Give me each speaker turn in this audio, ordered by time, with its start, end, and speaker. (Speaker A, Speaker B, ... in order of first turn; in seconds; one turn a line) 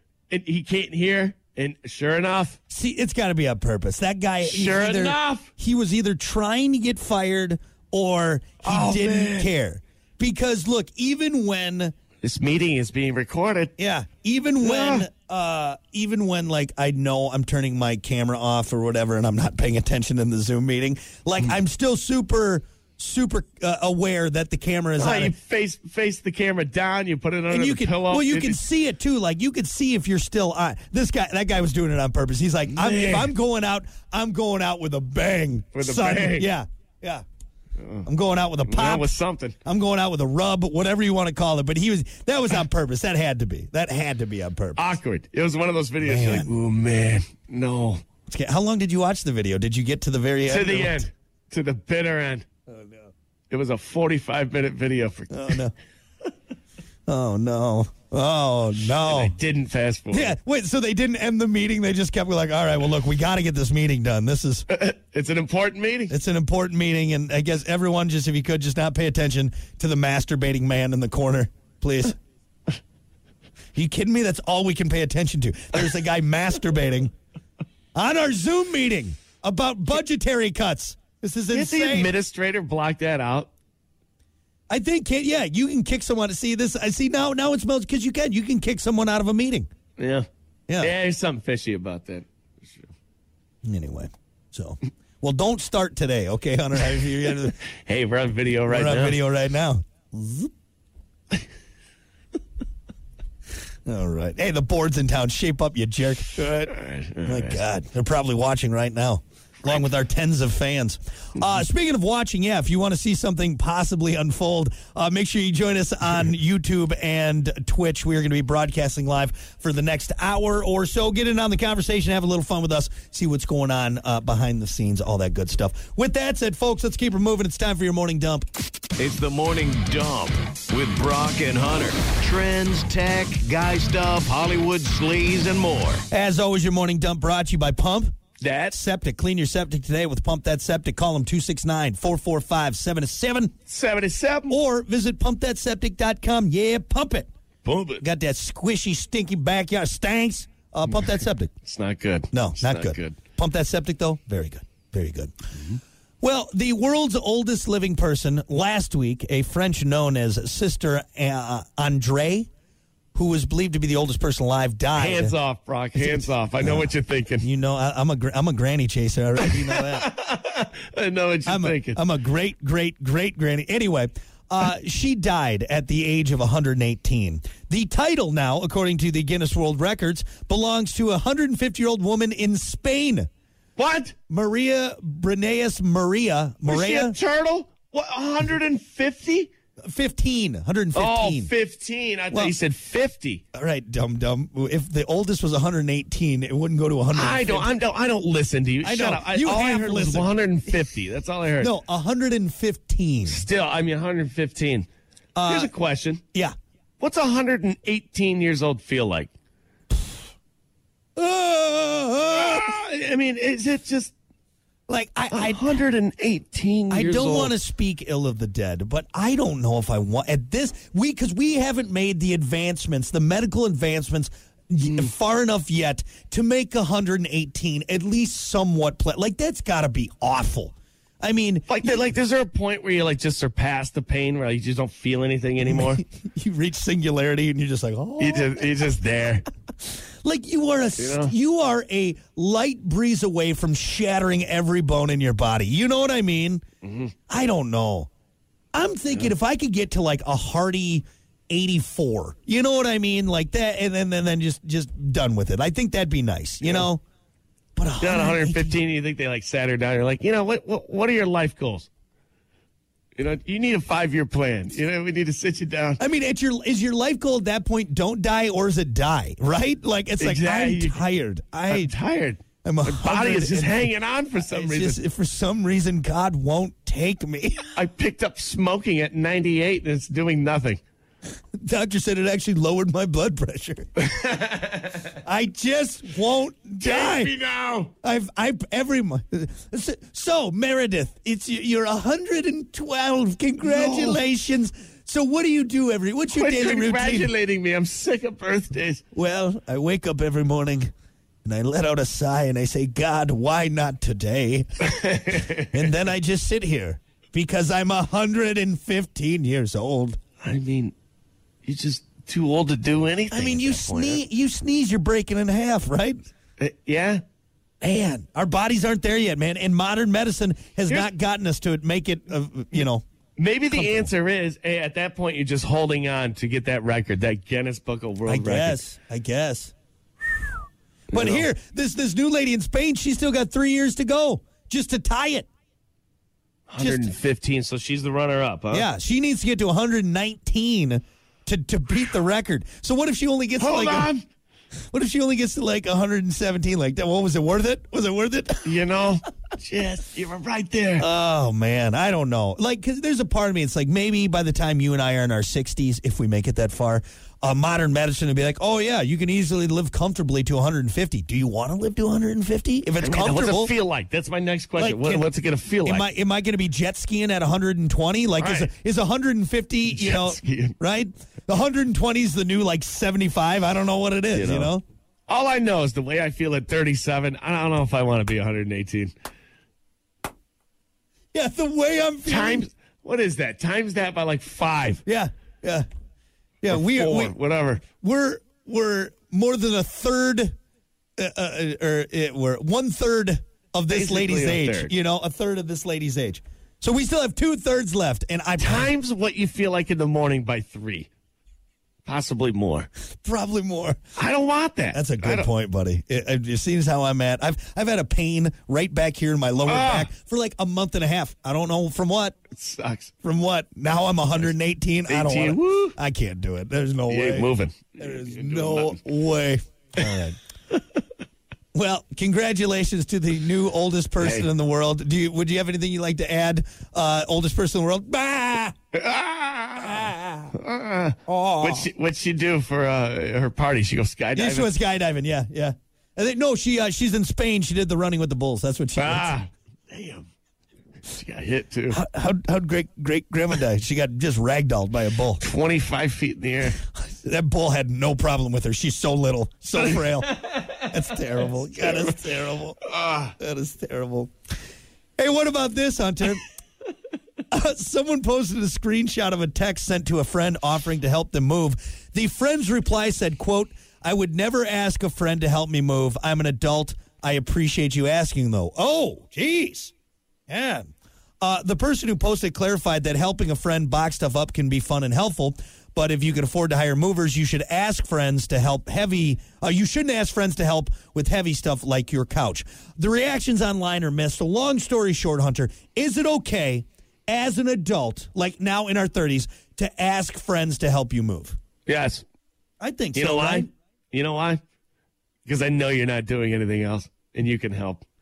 Speaker A: 0.3-2.6
Speaker B: 2.7-11.9
Speaker A: 4.4-5.5
Speaker A: 8.6-9.5
Speaker A: 12.2-13.7
Speaker B: 13.8-25.4
Speaker A: 14.6-15.1
Speaker A: 25.0-28.6
Speaker B: 27.5-37.2
Speaker A: 32.7-33.3
Speaker A: 35.8-36.5
Speaker A: 37.8-38.1
Speaker B: 38.0-39.1
Speaker A: 38.7-39.6
Speaker B: 39.6-45.0
Speaker A: 44.8-48.0
Speaker B: 46.0-46.5
Speaker B: 48.3-51.0
Speaker A: 50.5-52.5
Speaker B: 52.7-53.1
Speaker A: 53.5-55.6
Speaker B: 55.3-55.7
Speaker B: 57.1-59.3
Speaker A: 59.0-60.4
Speaker B: 60.1-64.7
Speaker A: 64.7-66.1
Speaker B: 66.1-72.2
Speaker B: 73.8-77.1
Speaker B: 78.0-82.1
Speaker A: 81.5-83.5
Speaker B: 84.7-89.7
Speaker A: 90.0-90.3
Speaker B: 90.7-90.9
Speaker A: 90.8-92.9
Speaker B: 93.6-97.6
Speaker A: 97.8-99.2
Speaker B: 98.7-100.5
Speaker B: 103.9-106.7
Speaker A: 106.3-107.6
Speaker B: 107.3-128.5
Speaker C: 129.0-136.1
Speaker B: 136.1-138.2
Speaker A: 138.4-138.8
Speaker B: 138.7-143.5
Speaker A: 143.7-144.6
Speaker B: 144.5-147.3
Speaker A: 147.7-148.0
Speaker B: 148.0-151.5
Speaker A: 151.6-153.2
Speaker B: 152.3-155.3
Speaker B: 156.2-162.5
Speaker B: 163.2-165.4
Speaker A: 164.9-167.5
Speaker B: 166.0-170.1
Speaker A: 169.4-172.0
Speaker B: 171.5-183.3
Speaker A: 183.8-184.2
Speaker B: 184.3-187.2
Speaker A: 186.7-189.5
Speaker B: 189.8-191.5
Speaker A: 190.9-193.4
Speaker B: 193.5-197.8
Speaker A: 197.1-201.7
Speaker B: 198.8-200.3
Speaker B: 201.6-203.4
Speaker A: 203.3-204.9
Speaker B: 205.3-205.7
Speaker A: 205.4-206.2
Speaker A: 207.0-209.3
Speaker B: 211.2-212.7
Speaker A: 212.3-214.1
Speaker B: 214.9-215.8
Speaker A: 215.3-217.6
Speaker B: 216.9-232.0
Speaker A: 231.7-236.0
Speaker B: 235.6-238.9
Speaker A: 238.2-239.4
Speaker B: 240.2-246.6
Speaker A: 241.0-241.3
Speaker A: 246.8-247.1
Speaker B: 247.3-248.1
Speaker B: 248.7-257.0
Speaker A: 256.6-256.9
Speaker B: 257.8-258.8
Speaker A: 258.0-261.9
Speaker A: 263.2-266.0
Speaker B: 266.0-271.9
Speaker A: 270.2-271.0
Speaker A: 271.7-275.0
Speaker B: 272.6-277.7
Speaker A: 277.8-280.8
Speaker B: 281.6-283.9
Speaker A: 284.1-285.1
Speaker B: 285.2-287.4
Speaker A: 286.8-287.9
Speaker B: 288.0-297.3
Speaker A: 293.6-294.2
Speaker A: 296.3-299.0
Speaker B: 299.1-300.9
Speaker B: 301.4-310.2
Speaker A: 304.9-305.8
Speaker A: 310.4-310.9
Speaker A: 311.6-314.2
Speaker B: 313.3-316.2
Speaker A: 316.6-317.2
Speaker B: 317.8-323.0
Speaker A: 323.4-328.8
Speaker B: 323.7-324.1
Speaker B: 328.3-329.7
Speaker A: 331.1-331.5
Speaker B: 331.1-335.5
Speaker A: 336.7-338.9
Speaker B: 336.8-337.1
Speaker B: 338.7-344.1
Speaker A: 343.6-344.2
Speaker B: 344.9-348.8
Speaker A: 348.6-351.1
Speaker B: 351.0-363.7
Speaker A: 363.0-366.1
Speaker B: 364.8-365.3
Speaker B: 365.8-374.8
Speaker A: 368.4-368.7
Speaker A: 369.9-370.8
Speaker A: 374.3-374.7
Speaker A: 375.3-379.1
Speaker B: 381.3-382.7
Speaker A: 382.2-385.0
Speaker B: 385.1-385.9
Speaker B: 386.6-387.4
Speaker A: 386.7-387.8
Speaker B: 388.0-390.5
Speaker B: 391.2-398.9
Speaker A: 393.9-394.9
Speaker A: 398.6-401.1
Speaker A: 402.1-402.9
Speaker B: 403.2-404.0
Speaker A: 404.2-405.5
Speaker B: 404.9-412.4
Speaker A: 409.7-410.1
Speaker A: 412.5-413.1
Speaker B: 413.2-420.4
Speaker A: 415.1-416.0
Speaker A: 417.1-419.0
Speaker B: 421.7-428.8
Speaker A: 424.2-424.5
Speaker A: 428.9-434.7
Speaker B: 429.8-430.5
Speaker B: 431.3-431.9
Speaker B: 434.4-439.4
Speaker A: 439.0-440.3
Speaker A: 441.1-442.0
Speaker B: 441.9-445.4
Speaker A: 445.4-446.8
Speaker B: 446.9-454.3
Speaker A: 450.4-450.8
Speaker A: 451.7-452.1
Speaker A: 452.9-453.3
Speaker B: 455.2-456.4
Speaker B: 457.5-469.9
Speaker B: 470.5-470.9
Speaker B: 471.4-491.6
Speaker A: 491.9-492.2
Speaker B: 492.8-493.7
Speaker A: 493.1-494.6
Speaker A: 495.5-498.0